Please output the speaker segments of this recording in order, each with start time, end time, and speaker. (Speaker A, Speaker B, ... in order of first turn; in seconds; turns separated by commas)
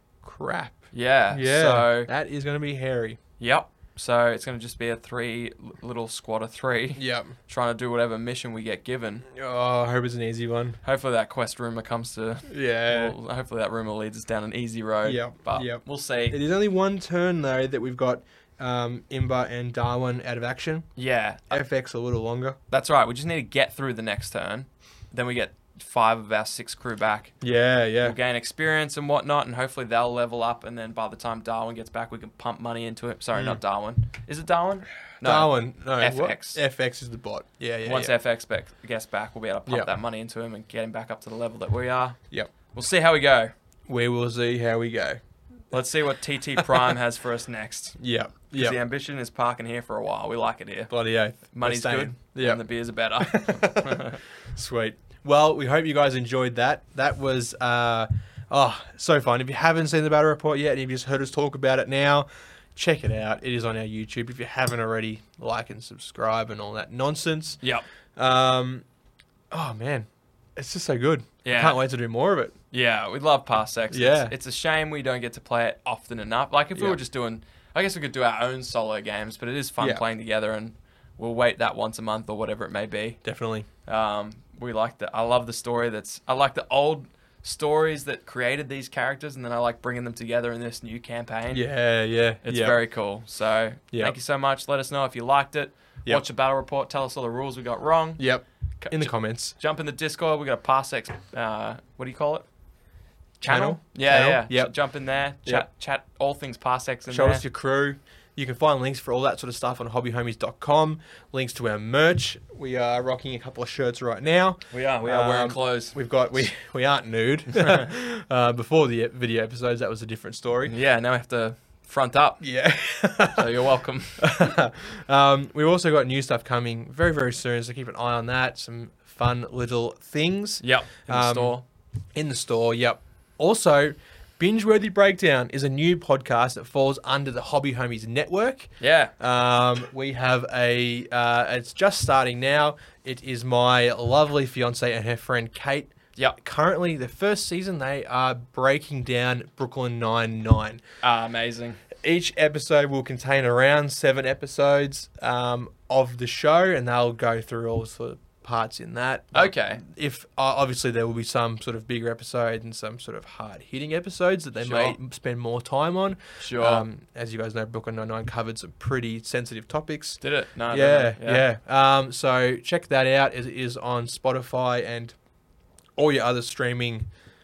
Speaker A: 0.2-3.2, Speaker B: 0.9-2.1, Speaker B: 3.4-9.3, Speaker A: 7.0-7.3, Speaker A: 9.3-10.8, Speaker B: 10.8-16.4, Speaker A: 12.5-13.2, Speaker A: 15.0-20.9, Speaker B: 21.0-21.6, Speaker A: 21.5-22.6, Speaker B: 22.7-27.4, Speaker A: 27.4-28.2, Speaker B: 28.0-36.6, Speaker A: 33.3-33.6, Speaker A: 35.2-38.1, Speaker B: 37.9-42.2, Speaker B: 42.7-43.5, Speaker A: 43.9-45.2, Speaker B: 45.7-48.0, Speaker A: 46.6-47.0, Speaker A: 48.0-48.8, Speaker B: 48.5-54.2, Speaker A: 50.9-52.6, Speaker A: 53.2-67.6, Speaker A: 68.2-68.9, Speaker A: 69.5-72.5, Speaker B: 71.4-71.8, Speaker B: 72.7-83.2, Speaker A: 73.9-74.3, Speaker A: 76.8-77.0, Speaker A: 79.8-80.0, Speaker A: 83.2-83.7, Speaker B: 83.9-91.7, Speaker A: 91.5-92.8, Speaker B: 92.4-98.3, Speaker A: 98.2-99.5, Speaker B: 98.8-102.5, Speaker B: 103.4-107.4, Speaker A: 103.4-104.7, Speaker A: 107.1-120.7, Speaker B: 114.7-116.4, Speaker B: 120.7-122.4, Speaker A: 122.4-131.6, Speaker B: 123.3-124.3, Speaker B: 130.6-131.7, Speaker A: 132.1-150.8, Speaker B: 138.8-139.1, Speaker B: 151.0-151.8, Speaker A: 152.0-175.2, Speaker B: 159.3-159.8, Speaker B: 164.6-165.0, Speaker B: 166.4-166.9, Speaker B: 170.2-171.4, Speaker A: 176.0-177.1